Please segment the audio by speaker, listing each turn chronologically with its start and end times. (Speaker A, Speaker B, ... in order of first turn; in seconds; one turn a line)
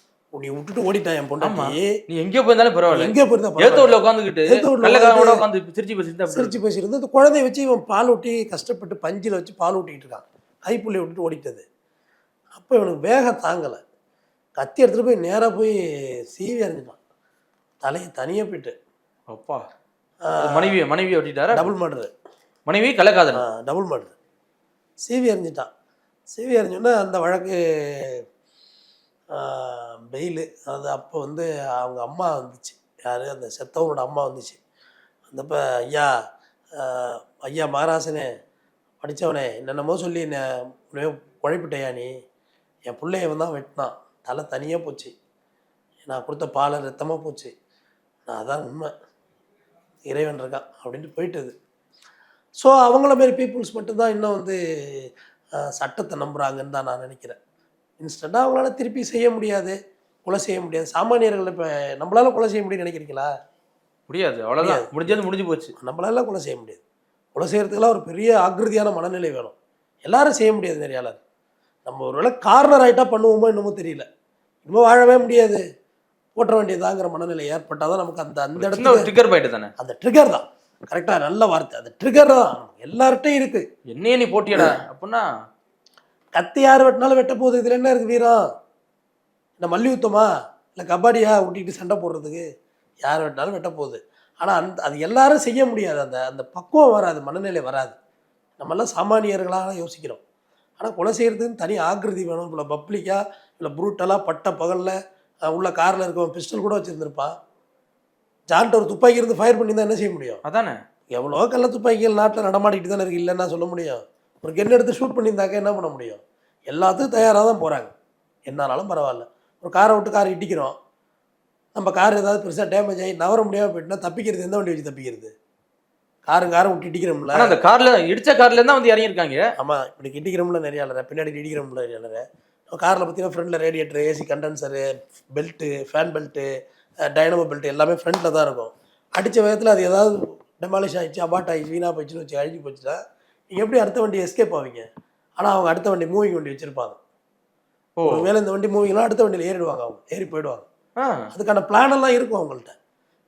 Speaker A: 0.3-2.0
Speaker B: 1.4-6.6
Speaker A: 2.9-5.4
Speaker A: 6.3-11.6
Speaker A: 12.5-13.8
Speaker A: 14.6-15.8
Speaker A: 16.3-17.0
Speaker A: 17.8-18.7
Speaker B: 19.3-19.6
Speaker A: 20.3-20.7
Speaker B: 20.4-21.7
Speaker A: 21.5-22.1
Speaker B: 22.6-23.4
Speaker A: 23.3-24.1
Speaker A: 25.1-25.7
Speaker A: 26.3-28.2
Speaker A: 29.3-34.6
Speaker A: 35.3-36.1
Speaker A: 36.8-38.3
Speaker A: 39.0-42.1
Speaker A: 42.9-45.1
Speaker A: 46.1-47.5
Speaker A: 48.3-48.9
Speaker A: 50.1-51.5
Speaker A: 52.6-57.4
Speaker A: 58.0-63.3
Speaker B: 64.1-65.7
Speaker A: 64.6-65.1
Speaker A: 65.8-66.8
Speaker A: 67.3-69.5
Speaker A: 70.0-71.2
Speaker A: 71.8-74.0
Speaker A: 74.7-75.6
Speaker A: 76.3-79.1
Speaker B: 78.6-79.7
Speaker A: 79.8-83.7
Speaker B: 83.9-85.2
Speaker A: 86.3-88.4
Speaker A: 89.6-92.5
Speaker A: 93.0-97.9
Speaker A: 98.6-100.2
Speaker A: 100.8-107.3
Speaker A: 108.5-110.4
Speaker B: 110.4-110.8
Speaker A: 111.1-117.9
Speaker A: 118.5-120.8
Speaker A: 121.8-125.3
Speaker A: 126.3-127.6
Speaker B: 127.3-129.5
Speaker A: 129.6-134.8
Speaker A: 135.3-136.5
Speaker A: 137.1-143.0
Speaker A: 143.5-144.8
Speaker A: 145.4-147.0
Speaker B: 148.0-148.3
Speaker A: 148.0-150.6
Speaker B: 151.0-151.3
Speaker A: 151.3-152.7